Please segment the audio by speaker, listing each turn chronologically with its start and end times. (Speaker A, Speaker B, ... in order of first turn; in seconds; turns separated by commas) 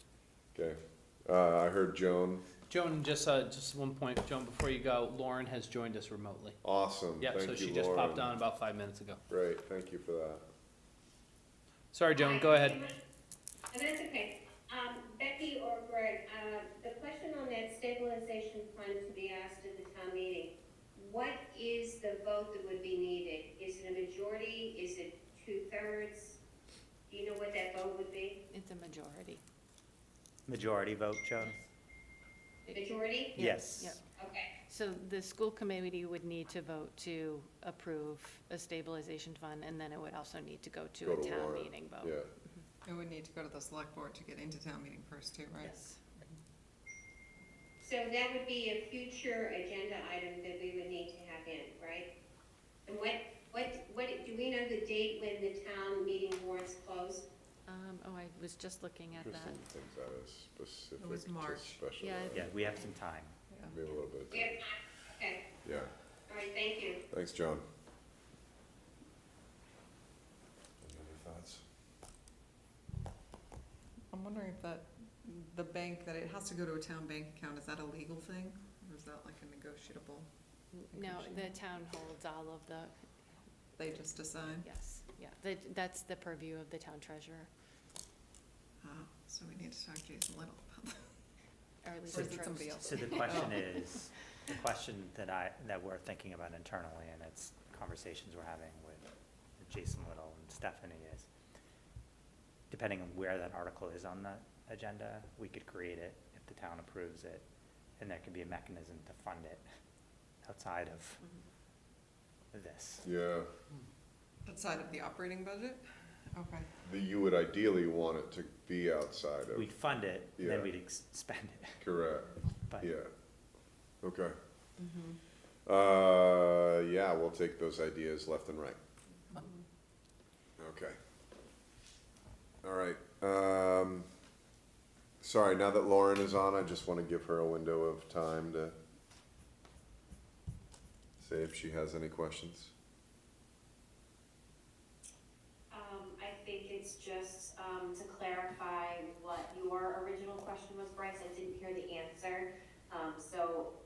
Speaker A: 0.5-2.4, Speaker B: 2.7-6.6, Speaker A: 6.6-8.4, Speaker B: 7.2-9.2, Speaker A: 9.3-10.4, Speaker B: 11.9-12.8, Speaker C: 12.2-12.9, Speaker C: 13.7-26.4, Speaker C: 27.1-28.4, Speaker D: 28.5-29.4, Speaker E: 30.5-31.6, Speaker D: 32.7-34.0, Speaker C: 32.7-33.4, Speaker E: 33.4-34.0, Speaker C: 34.2-34.5, Speaker D: 34.7-42.2, Speaker A: 41.0-42.3, Speaker F: 42.8-45.8, Speaker D: 45.6-45.8, Speaker C: 47.8-52.1, Speaker C: 52.9-57.2, Speaker D: 57.7-59.6, Speaker A: 59.1-62.5, Speaker F: 61.0-61.9, Speaker D: 62.0-62.4, Speaker E: 62.3-63.4, Speaker A: 63.7-64.5, Speaker C: 64.3-65.4, Speaker A: 65.6-65.9, Speaker C: 66.3-67.0, Speaker A: 67.1-67.6, Speaker A: 70.8-71.6, Speaker F: 74.1-80.3, Speaker D: 80.8-82.9, Speaker F: 80.9-81.5, Speaker F: 83.8-84.7, Speaker D: 84.6-87.5, Speaker F: 88.8-91.1, Speaker D: 91.8-93.2, Speaker F: 92.1-93.8, Speaker E: 92.8-99.1, Speaker E: 99.6-101.3, Speaker E: 102.7-107.4, Speaker E: 108.0-109.6, Speaker E: 110.4-111.2, Speaker E: 112.5-113.0, Speaker A: 113.0-113.5, Speaker F: 114.4-116.7, Speaker A: 116.8-119.7, Speaker E: 119.5-121.8, Speaker A: 120.4-120.7, Speaker A: 121.8-123.1, Speaker A: 124.0-124.3, Speaker A: 125.7-128.8, Speaker A: 130.6-131.0, Speaker A: 132.6-134.1, Speaker A: 135.2-138.7, Speaker A: 141.2-142.7, Speaker C: 145.7-153.7